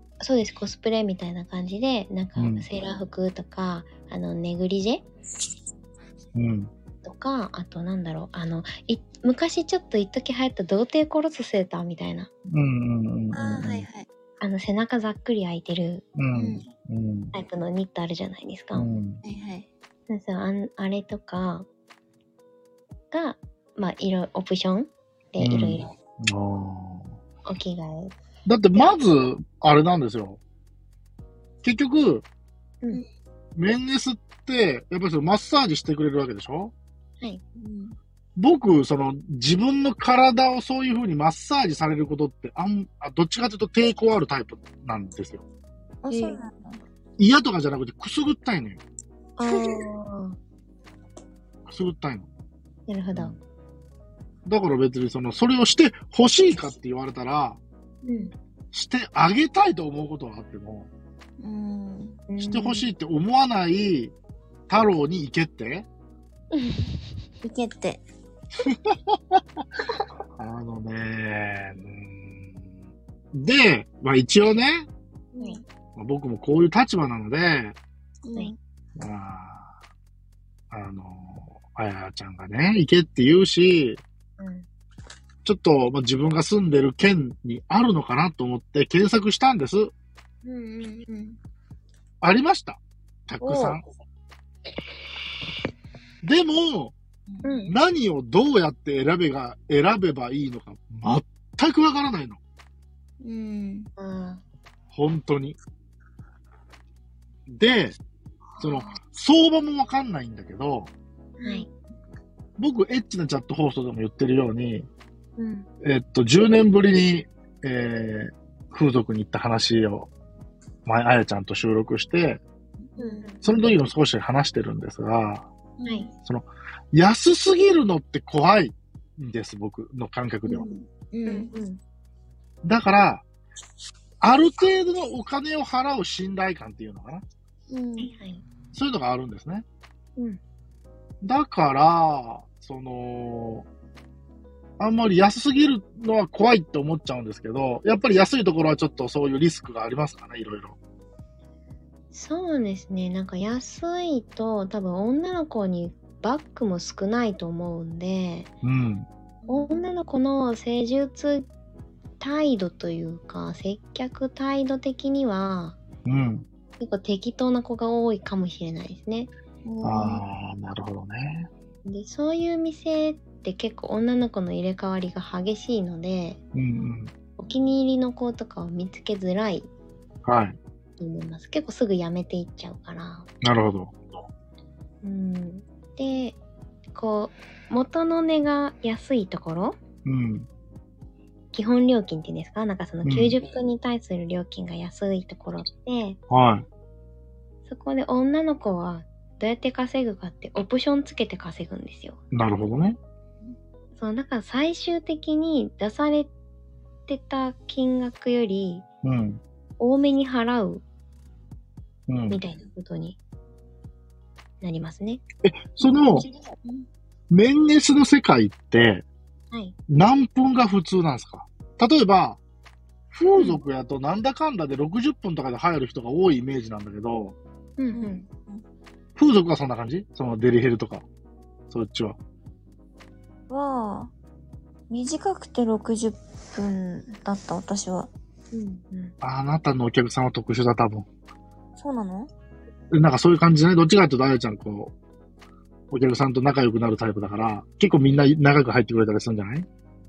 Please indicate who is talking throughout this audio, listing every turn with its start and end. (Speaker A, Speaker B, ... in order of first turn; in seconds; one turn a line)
Speaker A: 0.2-5.0
Speaker B: 2.4-2.7
Speaker B: 6.3-6.7
Speaker A: 7.0-12.3
Speaker B: 12.5-13.9
Speaker C: 13.3-14.1
Speaker A: 14.4-16.0
Speaker B: 16.2-17.3
Speaker C: 16.4-16.7
Speaker A: 17.3-18.9
Speaker B: 18.8-19.2
Speaker C: 19.2-19.7
Speaker A: 20.1-21.7
Speaker A: 23.1-25.9
Speaker B: 25.4-27.1
Speaker A: 27.5-28.2
Speaker B: 28.5-30.4
Speaker B: 31.6-32.3
Speaker B: 33.6-36.7
Speaker C: 37.6-38.0
Speaker B: 38.4-45.5
Speaker C: 46.0-46.8
Speaker A: 46.1-46.4
Speaker B: 47.2-48.8
Speaker A: 49.4-50.4
Speaker B: 51.7-52.3
Speaker A: 52.9-53.4
Speaker B: 54.5-57.6
Speaker A: 58.0-58.3
Speaker B: 58.7-60.9
Speaker C: 61.4-62.2
Speaker A: 62.3-62.9
Speaker B: 62.4-64.1
Speaker B: 64.7-65.9
Speaker A: 66.5-66.9
Speaker C: 67.4-68.0
Speaker B: 68.6-69.4
Speaker B: 70.4-72.7
Speaker B: 73.3-74.9
Speaker B: 76.0-77.8
Speaker C: 78.2-78.5
Speaker B: 79.0-79.7
Speaker B: 80.7-84.0
Speaker A: 84.4-84.7
Speaker B: 85.4-89.9
Speaker A: 90.5-91.4
Speaker B: 92.2-93.8
Speaker A: 93.4-93.8
Speaker B: 96.2-97.0
Speaker A: 97.4-97.7
Speaker B: 97.7-102.4
Speaker C: 103.2-103.9
Speaker A: 104.0-104.4
Speaker B: 104.9-105.6
Speaker B: 107.5-108.0
Speaker A: 108.6-109.0
Speaker B: 108.6-110.9
Speaker A: 111.4-111.7
Speaker C: 111.4-111.7
Speaker B: 112.6-114.9
Speaker A: 115.4-115.7
Speaker B: 115.8-120.1
Speaker B: 120.8-122.4
Speaker C: 122.8-123.3
Speaker A: 123.0-123.4
Speaker B: 123.4-125.5
Speaker C: 125.8-126.1
Speaker B: 126.3-130.7
Speaker C: 130.5-131.5
Speaker A: 131.3-131.8
Speaker B: 132.6-133.2
Speaker B: 134.2-137.2
Speaker C: 137.7-138.1
Speaker A: 138.0-138.4
Speaker B: 138.7-139.7
Speaker B: 141.2-143.7
Speaker B: 144.8-150.8
Speaker A: 152.1-158.5
Speaker B: 158.6-159.1
Speaker C: 159.4-159.8
Speaker A: 159.5-161.5
Speaker A: 162.2-165.8
Speaker B: 166.1-166.5
Speaker A: 166.8-169.3
Speaker C: 169.7-170.2
Speaker B: 169.8-171.5
Speaker A: 171.9-176.4
Speaker B: 176.5-177.1
Speaker A: 177.4-179.7
Speaker B: 180.2-180.6
Speaker A: 181.0-183.3
Speaker B: 183.4-184.0
Speaker A: 185.0-186.4
Speaker A: 186.9-189.8
Speaker B: 190.1-190.5
Speaker A: 191.5-196.2
Speaker B: 193.0-193.3
Speaker B: 196.3-196.7
Speaker A: 197.7-202.2
Speaker B: 202.3-203.0
Speaker A: 204.0-206.3
Speaker A: 207.1-208.8
Speaker B: 209.0-209.4
Speaker A: 209.8-210.8
Speaker B: 212.1-212.4
Speaker A: 212.3-213.2
Speaker A: 214.6-215.2
Speaker B: 215.4-216.3
Speaker B: 217.3-219.1
Speaker B: 219.9-222.4
Speaker B: 223.1-227.4
Speaker A: 227.8-228.2
Speaker C: 227.9-228.6
Speaker B: 229.2-231.1
Speaker B: 231.7-232.2
Speaker C: 233.5-234.1
Speaker C: 234.9-238.1
Speaker A: 238.5-239.1
Speaker B: 239.2-241.1
Speaker C: 241.8-242.3
Speaker B: 242.9-244.9
Speaker B: 245.9-249.7